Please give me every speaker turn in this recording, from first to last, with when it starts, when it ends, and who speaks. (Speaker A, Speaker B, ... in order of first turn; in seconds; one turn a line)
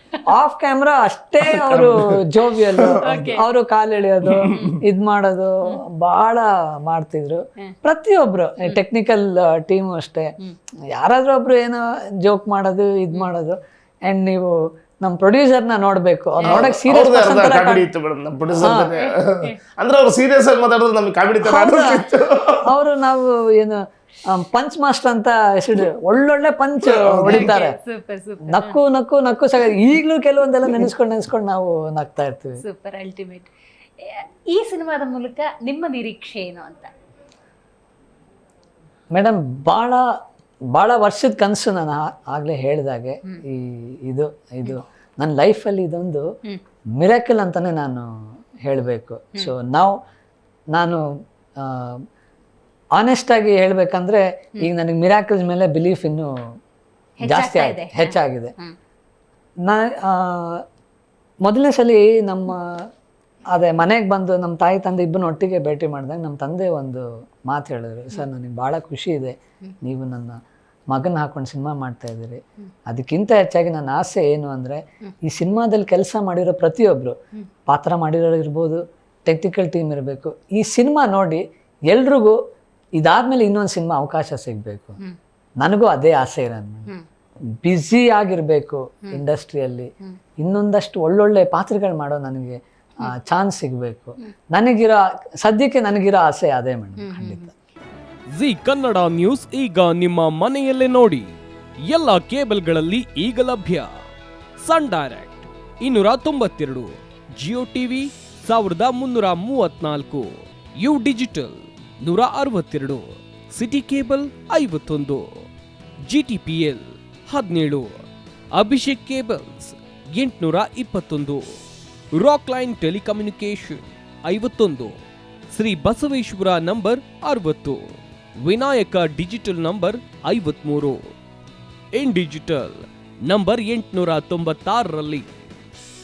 Speaker A: 0.3-10.3
Speaker B: 1.5-3.0
Speaker C: 3.0-3.4
Speaker B: 4.3-4.7
Speaker A: 10.9-17.9
Speaker C: 16.4-16.7
Speaker B: 16.4-22.7
Speaker A: 18.6-18.9
Speaker C: 19.0-19.6
Speaker A: 21.4-22.1
Speaker A: 22.7-27.8
Speaker B: 27.0-27.5
Speaker C: 27.2-28.8
Speaker A: 28.4-32.6
Speaker C: 32.6-36.9
Speaker A: 39.1-40.0
Speaker A: 40.7-46.2
Speaker A: 47.0-48.1
Speaker A: 48.6-49.9
Speaker A: 50.7-51.0
Speaker A: 51.6-52.0
Speaker A: 53.0-56.3
Speaker C: 57.2-58.7
Speaker A: 57.2-58.5
Speaker A: 59.7-60.6
Speaker A: 61.4-62.6
Speaker A: 63.5-77.2
Speaker A: 77.7-82.4
Speaker A: 83.0-85.0
Speaker A: 85.6-86.9
Speaker A: 87.6-89.9
Speaker A: 90.4-97.5
Speaker C: 97.0-97.5
Speaker D: 98.3-101.3
Speaker D: 101.9-103.9
Speaker D: 104.6-115.3
Speaker D: 116.1-118.0
Speaker D: 118.6-121.5
Speaker D: 122.1-125.0
Speaker D: 125.5-131.0
Speaker D: 131.9-135.3